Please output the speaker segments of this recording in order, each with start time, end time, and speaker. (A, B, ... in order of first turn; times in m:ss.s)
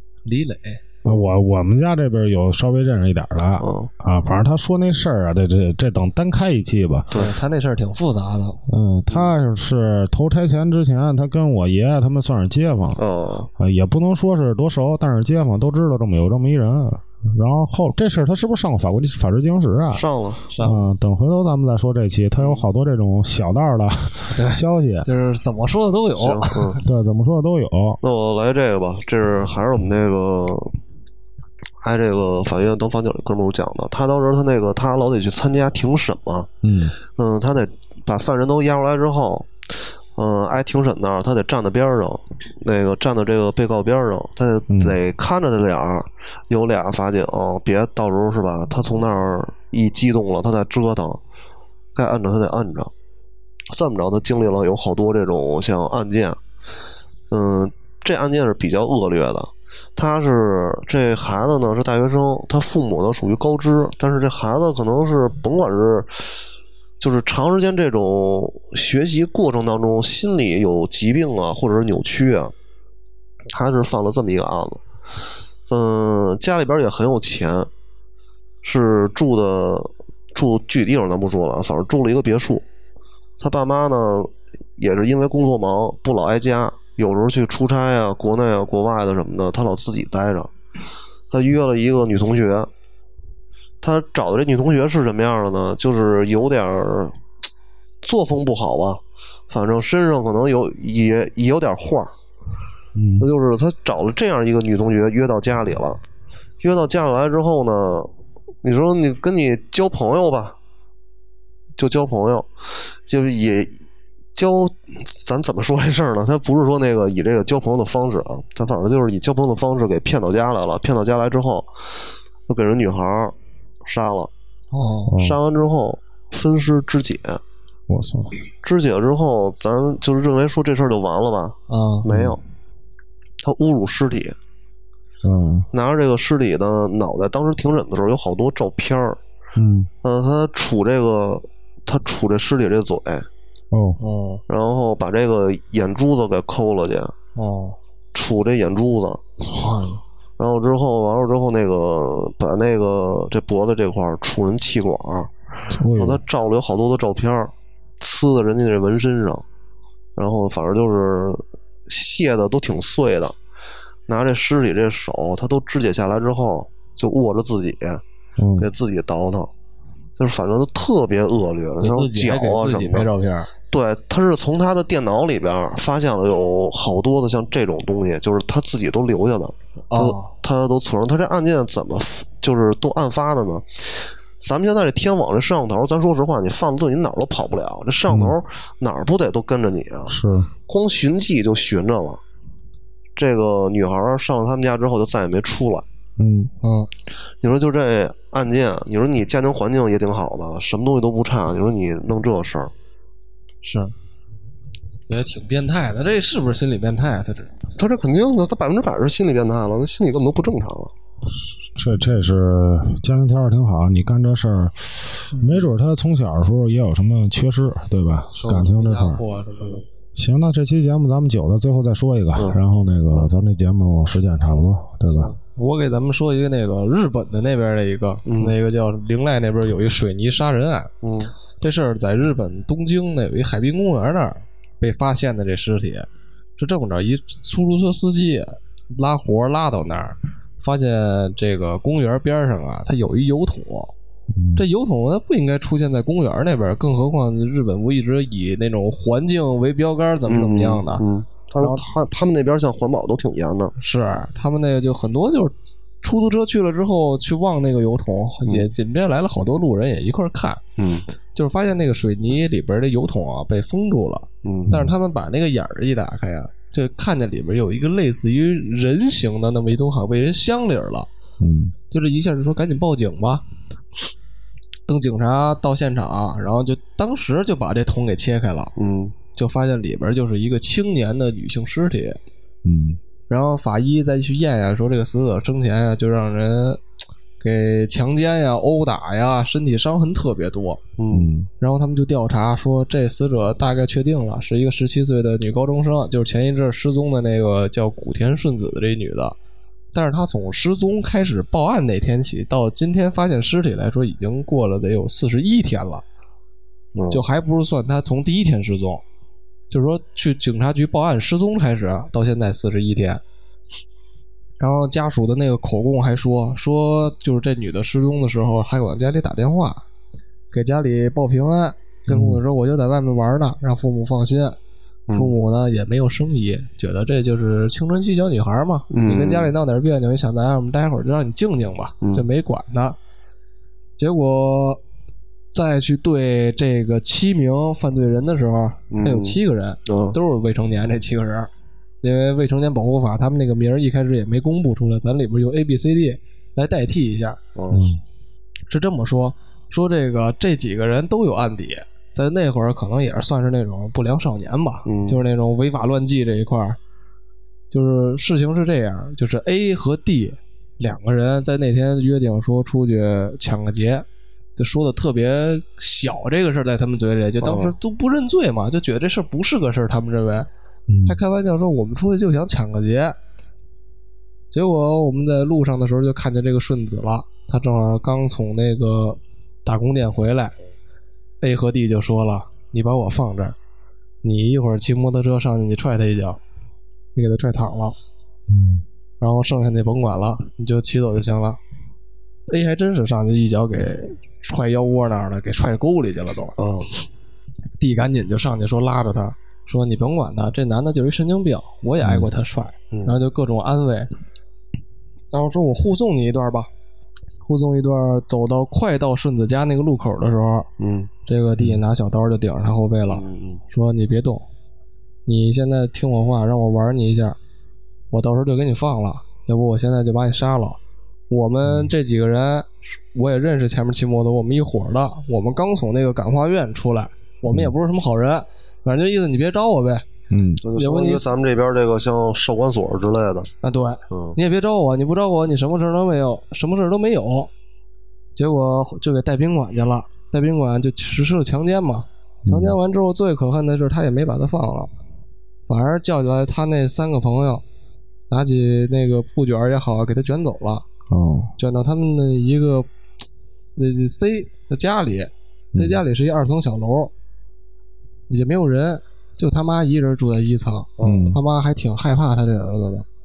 0:00.2-0:00.8 A
0:01.0-0:01.3 B
0:01.0-0:07.1 C
0:03.6-0:03.9 B
0:07.1-0:08.6 A
0:08.7-0:13.0 C
0:13.0-0:13.5 B
0:13.6-0:20.0 C
0:19.9-0:20.4 B
0:20.5-0:20.8 A
0:20.6-0:25.1 C
0:22.4-0:22.6 B
0:24.3-0:26.8 A
0:26.2-0:26.8 B
0:26.8-0:28.0 C
0:28.0-0:30.8 B
0:31.8-0:39.5 B
0:36.6-0:36.9 C
0:40.2-0:51.2 B
0:44.7-0:45.0 C
0:51.9-0:52.9 B
0:53.7-0:56.4 B
0:57.3-1:06.2 B
1:07.0-1:12.5 B
1:13.5-1:14.8 B
1:15.7-1:17.7 B
1:18.6-1:22.6 B
1:23.4-1:30.5 B
1:31.3-1:32.7 B
1:33.8-1:37.2 B
1:38.0-1:42.1 B
1:42.9-1:43.3 C
1:43.2-1:46.0 B
1:46.6-1:48.1 B
1:48.6-1:50.6 B
1:51.8-1:52.5 B
1:53.1-1:53.8 B
1:54.3-2:01.7 B
2:02.5-2:04.3 B
2:04.7-2:05.1 A
2:05.1-2:05.4 C
2:05.2-2:07.4 B
2:07.9-2:08.3 C
2:08.6-2:12.4 B
2:11.7-2:12.1 A
2:12.1-2:12.4 C
2:13.4-2:14.3 B
2:15.2-2:15.7 C
2:15.7-2:19.2 B
2:19.6-2:19.9 C
2:20.0-2:23.3 B
2:23.7-2:24.0 C
2:24.0-2:24.4 A
2:24.5-2:27.1 B
2:27.3-2:27.8 A
2:28.1-2:29.2 B
2:29.5-2:30.0 A
2:30.4-2:35.3 B
2:35.7-2:36.2 C
2:35.9-2:39.4 B
2:40.2-2:43.4 B
2:44.1-2:48.0 B
2:48.4-2:48.7 C
2:48.6-2:49.5 B
2:50.2-2:53.1 B
2:51.8-2:53.5 A
2:53.7-3:10.1 B
2:59.9-3:00.3 A
3:08.1-3:08.4 C
3:10.1-3:10.5 C
3:10.7-3:12.2 B
3:13.2-3:15.8 B
3:16.2-3:16.5 C
3:16.6-3:16.9 A
3:17.4-3:22.7 B
3:23.6-3:23.9 A
3:25.1-3:27.5 A
3:27.8-3:30.9 B
3:31.7-3:39.2 C
3:38.3-3:39.8 A
3:40.1-3:45.3 C
3:45.3-3:50.9 A
3:48.2-3:48.6 B
3:51.0-3:51.3 B
3:51.6-4:03.9 A
4:04.3-4:04.6 C
4:04.6-4:11.0 A
4:10.2-4:13.7 B
4:11.6-4:11.8 A
4:13.8-4:20.6 A
4:20.8-4:21.1 B
4:21.3-4:31.1 A
4:24.4-4:24.8 B
4:31.4-4:31.7 C
4:31.9-4:33.4 A
4:34.9-4:38.7 A
4:38.8-4:39.2 B
4:39.3-4:42.2 A
4:42.6-4:43.0 C
4:43.3-4:46.8 A
4:47.4-4:50.8 A
4:51.0-4:51.3 B
4:51.1-4:51.5 C
4:51.6-4:59.4 A
4:59.9-5:06.0 A
5:06.9-5:07.2 B
5:07.1-5:09.0 A
5:09.7-5:13.2 A
5:14.6-5:19.8 A
5:20.5-5:24.6 A
5:22.1-5:22.4 C
5:25.1-5:25.3 B
5:25.1-5:33.0 A
5:28.9-5:29.5 B
5:34.0-5:34.8 A
5:35.5-5:41.5 A
5:38.9-5:40.2 B
5:42.0-5:47.4 A
5:47.6-5:47.9 B
5:47.7-5:48.0 C
5:48.7-5:56.8 A
5:54.8-5:55.2 B
5:57.7-6:04.0 A
6:04.6-6:10.5 A
6:07.4-6:07.8 B
6:10.9-6:11.2 C
6:11.0-6:13.2 A
6:14.5-6:20.6 A
6:21.4-6:23.6 A
6:24.2-6:26.4 A
6:27.1-6:28.0 A
6:28.5-6:28.8 C
6:29.2-6:31.6 A
6:32.5-6:36.6 A
6:36.6-6:36.9 B
6:37.8-6:44.1 A
6:42.0-6:42.3 C
6:42.9-6:43.2 B
6:45.3-6:46.7 A
6:47.4-6:50.7 A
6:50.8-6:51.1 B
6:51.3-6:54.4 A
6:53.1-6:53.6 B
6:55.2-6:57.4 A
6:58.1-7:10.0 A
7:01.6-7:01.9 C
7:10.3-7:10.6 C
7:10.6-7:13.5 B
7:10.7-7:11.3 A
7:13.6-7:17.5 A
7:14.1-7:14.4 B
7:18.4-7:24.9 A
7:22.4-7:22.8 C
7:25.7-7:27.6 A
7:28.3-7:30.8 A
7:31.1-7:31.5 C
7:31.6-7:32.9 A
7:33.8-7:37.1 A
7:35.7-7:36.0 C
7:38.3-7:43.0 A
7:41.0-7:41.3 B
7:41.0-7:41.4 C